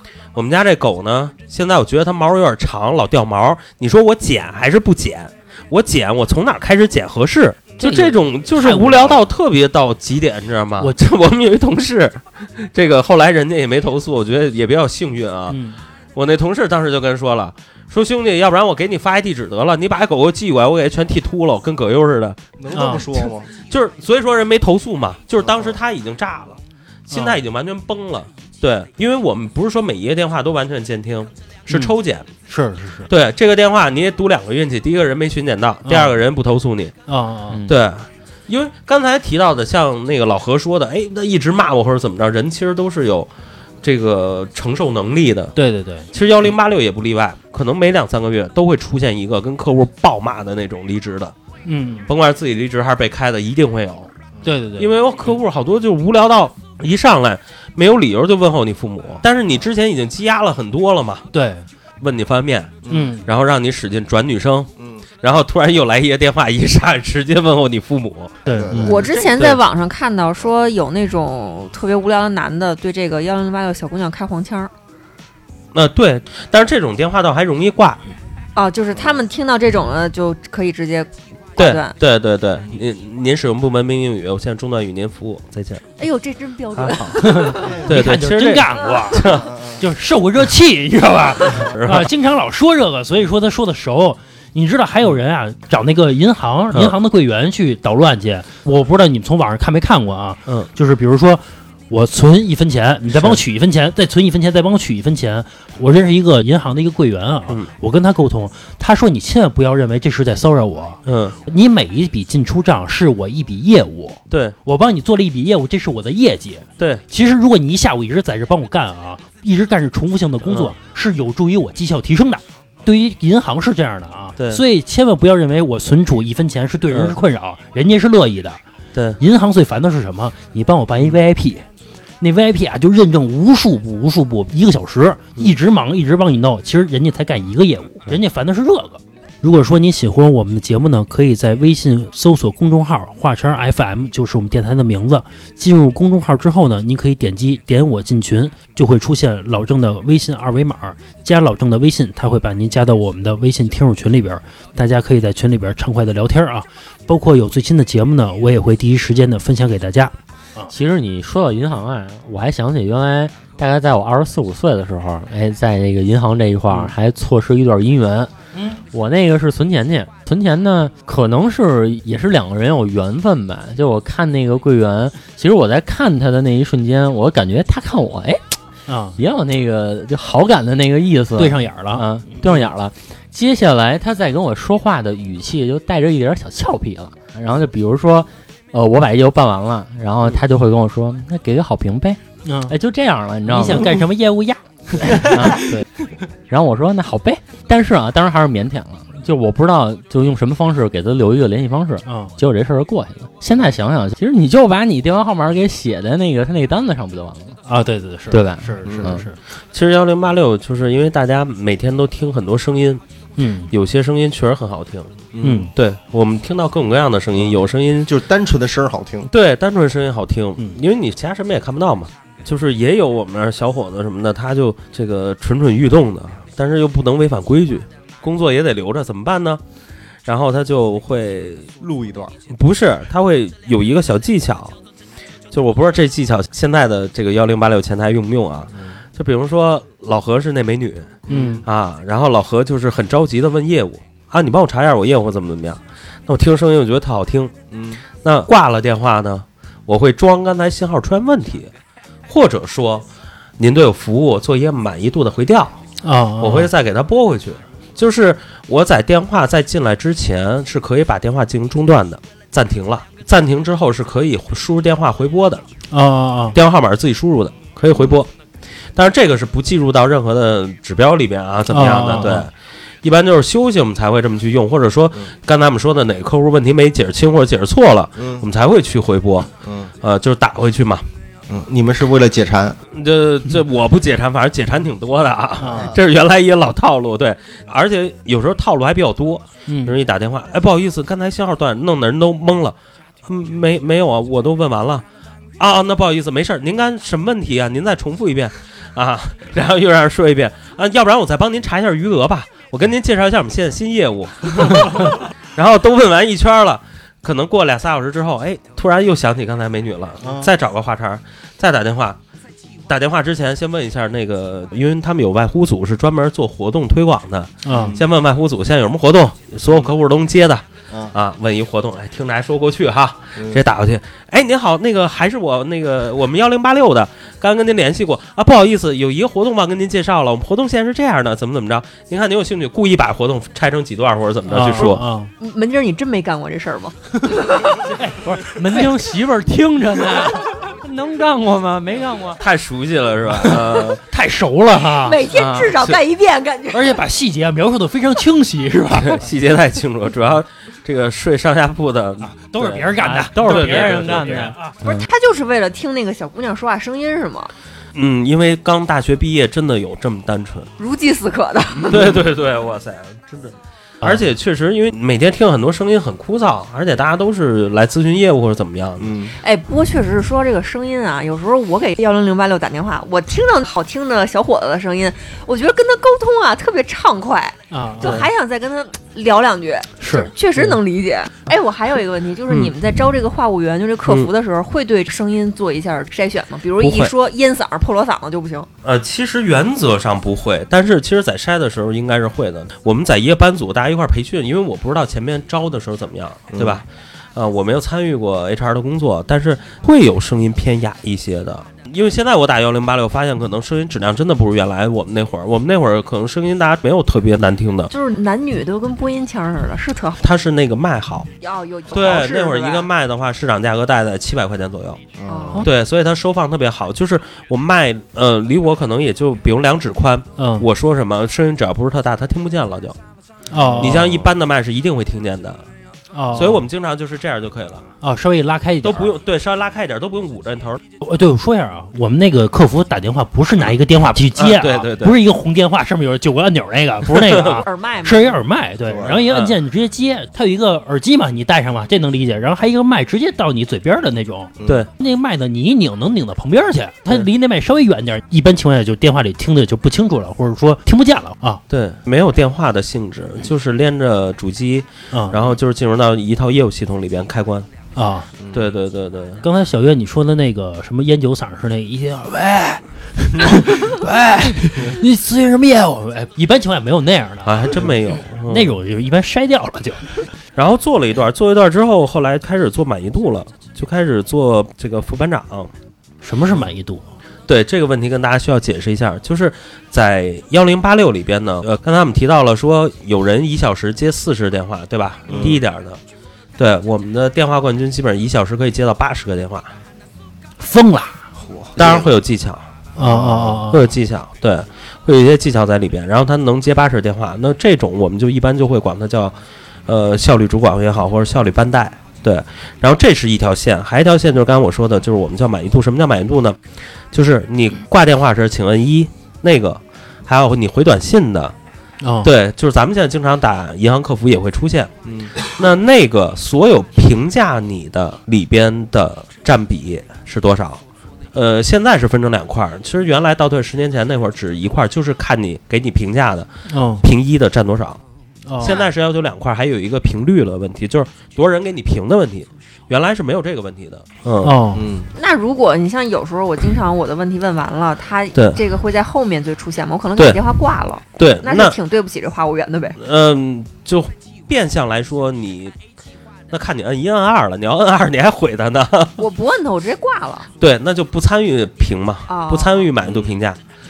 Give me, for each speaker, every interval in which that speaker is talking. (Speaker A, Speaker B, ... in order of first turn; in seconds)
Speaker A: 0.3-15.6, 16.1-22.4, 23.2-32.3, 33.1-36.9, 37.6-43.3, 43.8-45.5, 46.1-51.3, 52.1-54.1, 54.8-61.3, 62.0-68.4, 75.7-78.0, 81.6-85.8, 86.8-87.2, 87.8-89.5, 91.5-92.1, 103.1-103.4, 111.1-111.4, 114.3-114.6, 120.5-120.7, 124.4-124.6, 126.9-127.2, 128.9-129.2, 209.7-213.0, 213.7-215.2, 215.7-218.2, 219.3-229.6, 230.3-231.7, 232.5-234.8, 235.5-247.5, 248.2-251.7, 252.3-253.1, 253.6-255.8, 256.4-265.6, 266.6-268.3, 269.0-272.5, 273.0-279.5, 280.0-281.1, 282.9-295.1, 295.6-312.2, 312.9-335.0, 342.4-344.0, 348.9-354.5, 357.9-360.7, 361.8-369.1, 378.0-378.3, 384.1-384.3, 386.8-387.1, 388.8-407.9, 410.2-411.3, 411.9-415.0, 415.6-423.0, 423.8-425.7, 426.3-427.9, 428.8-430.8, 434.4-435.2, 437.1-437.6, 439.3-439.6, 451.7-457.7, 458.5-459.4, 467.4-468.7, 470.6-475.7, 477.5-486.0, 486.6-489.7, 491.8-492.6, 493.7-499.4, 499.9-506.6, 507.1-511.6, 512.2-520.8, 521.3-526.5, 527.0-528.0, 528.6-534.6, 538.3-538.6, 541.2-541.8, 543.0-545.8, 546.5-549.2, 550.6-553.6
Speaker B: 7.8-9.2, 15.5-15.8, 22.7-23.1, 27.1-27.4, 32.5-33.1, 35.9-36.2, 37.1-37.6, 45.5-46.1, 51.6-52.1, 54.4-54.9, 61.3-61.7, 62.9-63.3, 68.5-69.0, 87.2-128.6, 129.2-131.6, 132.2-160.7, 178.9-179.2, 181.4-182.6, 192.4-192.8, 193.5-195.8, 202.1-202.3, 207.7-209.4, 213.4-213.7, 215.4-215.7, 241.3-241.7, 256.0-256.7, 265.9-266.6, 271.7-272.5, 285.6-285.9, 289.7-290.0, 317.6-318.0, 334.5-335.3, 337.3-342.4, 343.4-345.2, 346.7-349.2, 352.2-354.8, 377.7-378.2, 380.0-380.3, 420.4-420.7, 423.5-424.0, 426.1-426.6, 428.0-429.1, 431.0-451.6, 455.1-455.4, 457.9-458.3, 459.4-467.7, 468.5-470.2, 476.2-477.0, 490.6-491.2, 493.0-493.8, 512.0-512.3, 526.7-527.0, 528.5-528.8, 534.4-534.9
Speaker C: 22.6-23.5, 25.4-25.8, 62.9-63.2, 64.8-65.0, 68.5-69.5, 79.0-79.2, 89.2-89.8, 208.9-209.2, 215.3-215.7, 218.1-219.3, 231.8-232.3, 238.7-239.0, 241.3-241.7, 247.7-248.0, 278.2-278.4, 279.6-279.9, 281.5-282.8, 285.7-286.0, 310.2-310.5, 317.7-318.1, 323.4-323.6, 369.0-369.4, 396.6-396.8, 415.2-415.6, 423.6-424.3, 438.9-439.2, 444.6-444.9, 458.4-458.7, 485.3-485.6, 491.4-492.1, 493.0-493.7, 515.0-515.4, 534.7-535.1, 553.0-553.3
Speaker D: 68.8-74.7, 78.5-82.0, 86.0-87.8, 335.4-337.9, 344.9-347.0, 354.8-357.5, 360.8-362.1, 369.4-388.7, 407.9-410.2, 411.4-412.9, 415.3-415.7, 437.4-438.4, 535.1-543.0, 549.2-550.5, 552.3-552.9
Speaker E: 160.7-168.3, 168.9-178.4, 179.2-194.0, 195.1-195.9, 196.5-207.6, 208.3-209.2, 345.3-345.7, 353.0-354.9